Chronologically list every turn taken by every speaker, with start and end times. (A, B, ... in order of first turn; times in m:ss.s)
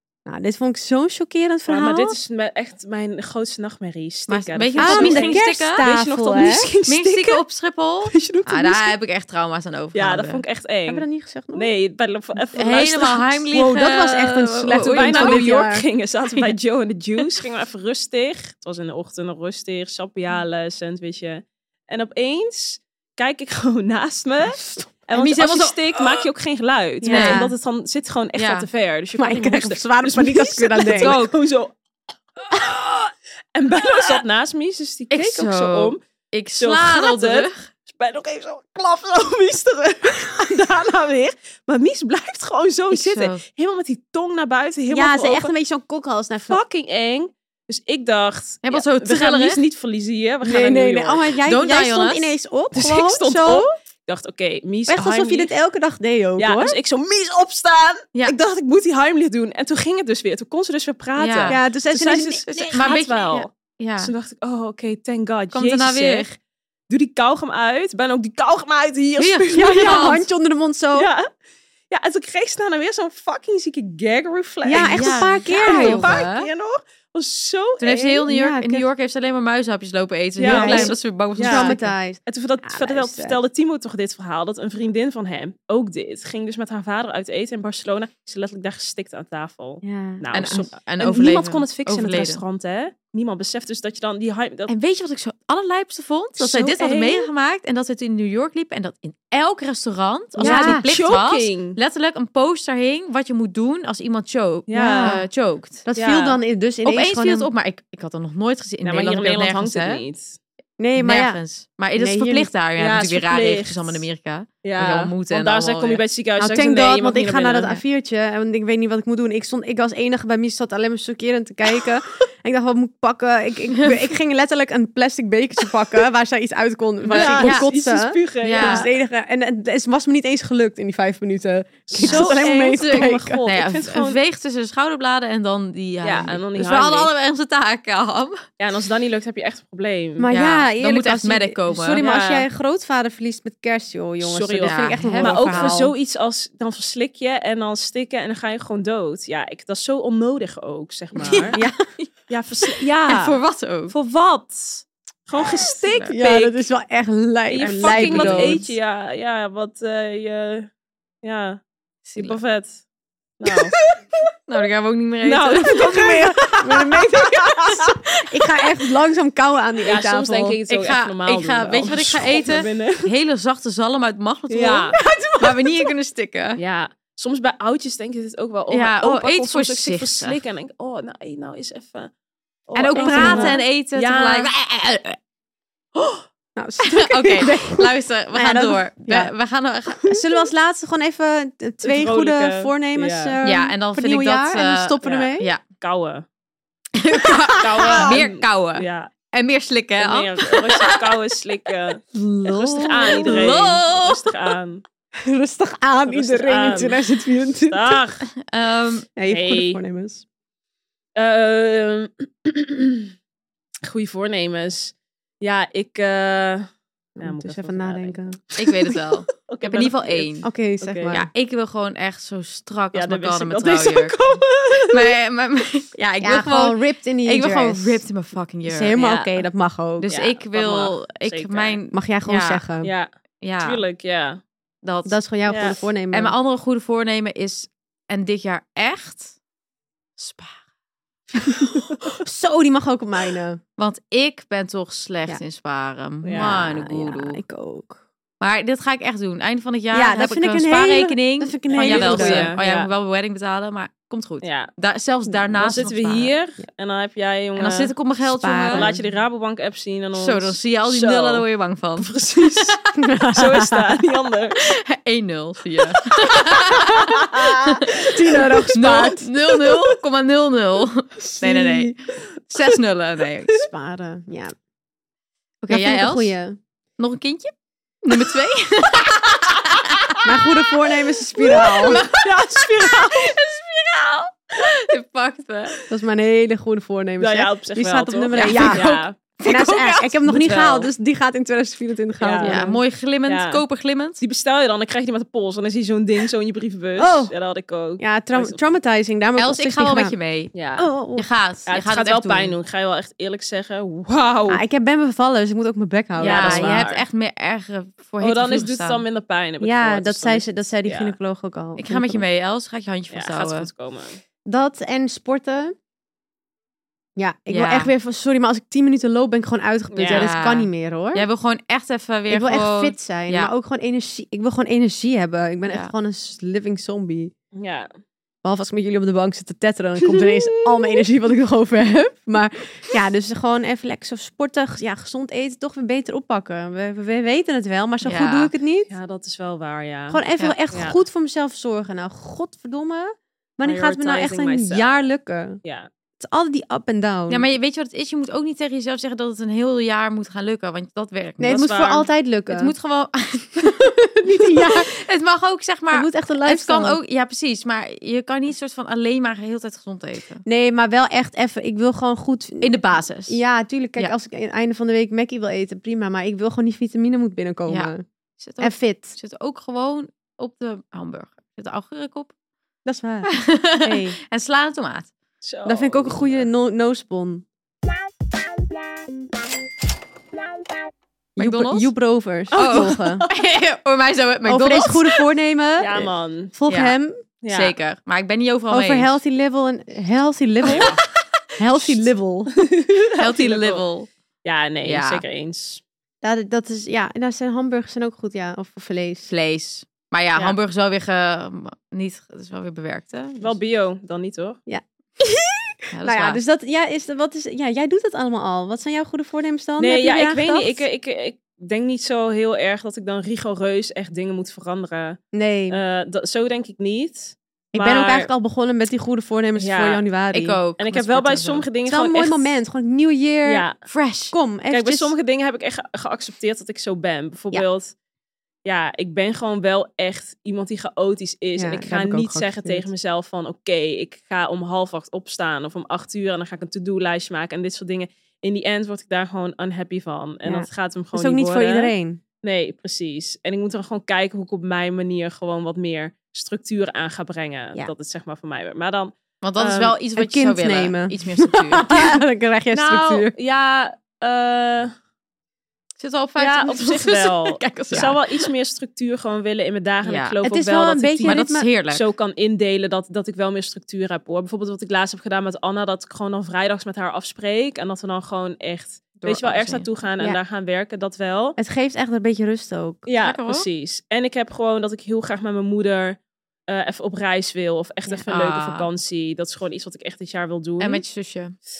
0:00.3-0:02.2 A
0:01.7-0:07.4 B
0:04.3-0:05.9 C
0:04.8-0:06.7 A
0:06.9-0:10.4 C
0:08.0-0:08.9 B
0:09.9-0:13.3 B
0:10.9-0:11.7 A
0:12.6-0:15.5 C
0:13.5-0:15.8 A
0:14.8-0:31.7 B
0:24.6-0:24.9 A
0:25.2-0:26.3 C
0:27.0-0:27.5 A
0:27.0-0:27.5 C
0:28.4-0:28.7 C
0:29.2-0:31.2 A
0:30.9-0:31.4 C
0:32.5-0:32.8 B
0:33.6-0:36.0 B
0:35.1-0:37.6 C
0:36.6-0:45.5 B
0:42.9-0:43.4 C
0:44.9-0:46.6 A
0:46.5-0:51.3 B
0:48.6-0:49.6 C
0:50.4-0:53.7 A
0:51.4-0:52.4 C
0:52.7-0:55.5 B
0:54.9-0:56.8 A
0:56.4-1:03.5 B
1:01.2-1:01.6 C
1:01.5-1:03.4 A
1:02.5-1:04.1 C
1:04.0-1:06.4 B
1:05.5-1:06.3 C
1:06.9-1:10.1 B
1:09.2-1:10.3 C
1:09.5-1:11.1 A
1:11.0-1:11.3 B
1:11.9-1:18.3 B
1:14.6-1:16.1 A
1:14.8-1:16.5 C
1:17.8-1:21.9 C
1:18.3-1:18.9 A
1:20.4-1:34.7 B
1:20.4-1:23.4 A
1:29.8-1:30.7 A
1:30.3-1:32.4 C
1:34.7-1:45.8 C
1:36.4-1:37.3 B
1:40.4-1:41.8 B
1:40.4-1:40.9 A
1:44.7-1:45.2 B
1:44.9-1:45.3 A
1:45.8-1:47.5 A
1:46.0-1:46.4 B
1:46.8-1:50.0 C
1:48.8-1:50.4 B
1:50.8-1:51.4 A
1:51.0-1:56.0 C
1:52.0-1:52.5 A
1:52.8-1:54.1 B
1:54.6-1:57.7 B
1:56.4-2:13.4 A
2:07.0-2:07.7 C
2:07.1-2:08.9 B
2:08.4-2:08.9 C
2:11.9-2:14.2 B
2:12.0-2:18.4 C
2:16.0-2:17.1 B
2:18.6-2:20.3 B
2:20.2-2:25.9 A
2:20.3-2:22.0 C
2:22.0-2:22.5 B
2:24.2-2:31.6 B
2:24.6-2:25.8 C
2:31.2-2:32.1 C
2:31.5-2:31.8 A
2:32.3-2:33.4 B
2:33.1-2:33.9 C
2:33.9-2:36.6 B
2:35.6-2:36.1 C
2:36.1-2:38.7 A
2:37.5-2:40.7 B
2:37.6-2:38.7 C
2:41.2-2:41.6 B
2:42.1-2:42.4 C
2:42.2-2:42.8 B
2:43.4-2:43.8 B
2:44.5-2:46.2 C
2:45.2-2:48.0 B
2:45.9-2:50.6 A
2:49.8-2:53.1 B
2:50.7-2:56.6 C
2:54.5-2:55.0 B
2:55.0-2:55.7 A
2:56.6-3:02.1 B
2:58.7-3:00.4 C
3:02.7-3:04.5 B
3:02.8-3:05.2 C
3:03.0-3:03.6 A
3:06.6-3:09.3 A
3:06.8-3:10.3 C
3:10.0-3:15.5 A
3:11.8-3:13.4 B
3:13.4-3:15.6 C
3:15.0-3:16.2 B
3:17.0-3:21.0 C
3:17.3-3:18.2 A
3:17.6-3:19.1 B
3:20.0-3:24.8 B
3:22.1-3:23.6 A
3:22.9-3:24.2 C
3:25.2-3:28.0 A
3:26.1-3:27.0 B
3:27.7-3:28.2 B
3:28.4-3:29.1 C
3:29.2-3:30.2 A
3:29.3-3:29.8 B
3:31.2-3:33.1 B
3:33.9-3:41.2 B
3:37.2-3:38.4 A
3:38.6-3:40.5 C
3:40.4-3:41.3 A
3:41.1-3:48.9 C
3:42.9-3:45.2 B
3:46.2-3:48.0 A
3:48.6-3:50.1 A
3:49.0-3:49.4 B
3:50.0-3:52.6 C
3:50.1-3:51.8 B
3:51.9-3:52.9 A
3:52.8-3:54.4 B
3:53.4-3:53.8 C
3:54.8-3:55.2 C
3:55.1-3:56.3 A
3:55.5-3:55.8 B
3:56.1-3:59.4 C
4:00.2-4:00.6 C
4:02.2-4:03.6 A
4:03.8-4:07.4 C
4:06.2-4:06.6 B
4:06.4-4:08.0 A
4:08.4-4:16.3 C
4:09.9-4:12.6 A
4:11.7-4:12.9 B
4:14.4-4:14.7 B
4:15.6-4:17.9 B
4:17.6-4:18.9 C
4:18.2-4:19.1 A
4:18.7-4:21.5 B
4:20.1-4:22.8 C
4:22.0-4:22.8 B
4:23.0-4:24.0 A
4:23.4-4:24.7 B
4:24.7-4:33.6 C
4:26.7-4:27.7 B
4:27.0-4:27.5 A
4:28.1-4:29.6 A
4:28.3-4:28.6 B
4:31.2-4:31.9 A
4:33.5-4:34.5 A
4:35.6-4:36.4 C
4:35.7-4:36.6 A
4:37.0-4:40.2 C
4:40.2-4:42.0 A
4:41.4-4:45.8 C
4:42.1-4:43.4 B
4:45.9-4:52.7 A
4:47.2-4:49.2 B
4:48.4-4:50.2 C
4:50.3-4:50.9 B
4:52.2-4:53.6 B
4:52.4-4:54.2 C
4:54.2-4:58.7 B
4:57.0-4:57.3 A
4:58.0-5:00.2 A
4:59.4-5:00.5 C
5:00.5-5:00.9 B
5:00.8-5:01.2 A
5:01.1-5:02.6 C
5:01.7-5:04.6 B
5:04.5-5:06.9 A
5:06.2-5:07.0 B
5:06.2-5:09.0 C
5:08.2-5:11.2 B
5:09.6-5:12.2 A
5:11.8-5:13.7 C
5:13.1-5:14.2 B
5:14.5-5:15.7 A
5:17.2-5:21.2 A
5:17.5-5:17.9 C
5:19.9-5:20.3 B
5:20.0-5:23.5 C
5:22.3-5:27.3 A
5:25.7-5:25.9 C
5:27.6-5:27.9 B
5:28.4-5:38.9 A
5:38.0-5:38.5 C
5:38.9-5:40.2 B
5:40.1-5:45.6 A
5:40.7-5:41.0 B
5:43.6-5:45.1 B
5:45.6-5:45.9 B
5:46.2-5:47.4 A
5:47.3-5:51.7 C
5:51.4-5:52.7 A
5:51.6-5:52.1 B
5:52.5-6:00.4 C
5:53.8-5:54.9 A
5:55.9-5:57.0 A
6:00.4-6:02.7 A
6:02.6-6:03.4 C
6:03.3-6:08.0 A
6:07.7-6:12.3 C
6:08.6-6:09.2 A
6:12.8-6:14.2 A
6:13.3-6:15.1 C
6:15.4-6:16.5 B
6:15.7-6:17.4 A
6:21.4-6:23.3 A
6:21.4-6:21.9 C
6:22.5-6:25.2 C
6:24.4-6:27.2 A
6:25.8-6:26.5 B
6:26.7-6:27.0 C
6:27.4-6:27.8 B
6:27.5-6:29.2 C
6:28.7-6:30.9 A
6:30.6-6:32.0 C
6:30.7-6:31.0 B
6:31.6-6:32.5 A
6:32.6-6:33.8 B
6:33.2-6:34.1 C
6:34.4-6:35.8 B
6:34.8-6:35.2 C
6:36.2-6:39.3 A
6:39.3-6:43.5 C
6:43.4-6:44.6 B
6:44.7-6:50.8 A
6:45.9-6:46.4 C
6:49.8-6:58.3 B
6:55.3-6:55.8 A
6:57.7-7:00.6 A
6:59.6-7:00.0 B
7:00.3-7:01.7 C
7:00.8-7:02.5 B
7:01.9-7:03.6 A
7:03.4-7:03.8 B
7:03.8-7:04.4 C
7:04.3-7:05.1 A
7:04.7-7:07.9 B
7:08.6-7:30.0 B
7:11.6-7:12.9 A
7:20.4-7:22.2 A
7:29.4-7:32.1 C
7:30.2-7:33.3 A
7:32.7-7:34.9 B
7:36.0-7:38.5 C
7:36.4-7:51.6 B
7:40.0-7:40.4 C
7:40.4-7:41.7 A
7:41.2-7:42.1 C
7:49.2-7:49.9 C
7:51.6-7:53.0 A
7:53.1-8:01.0 B
7:53.2-7:53.7 C
7:58.3-7:58.9 C
8:00.8-8:01.6 C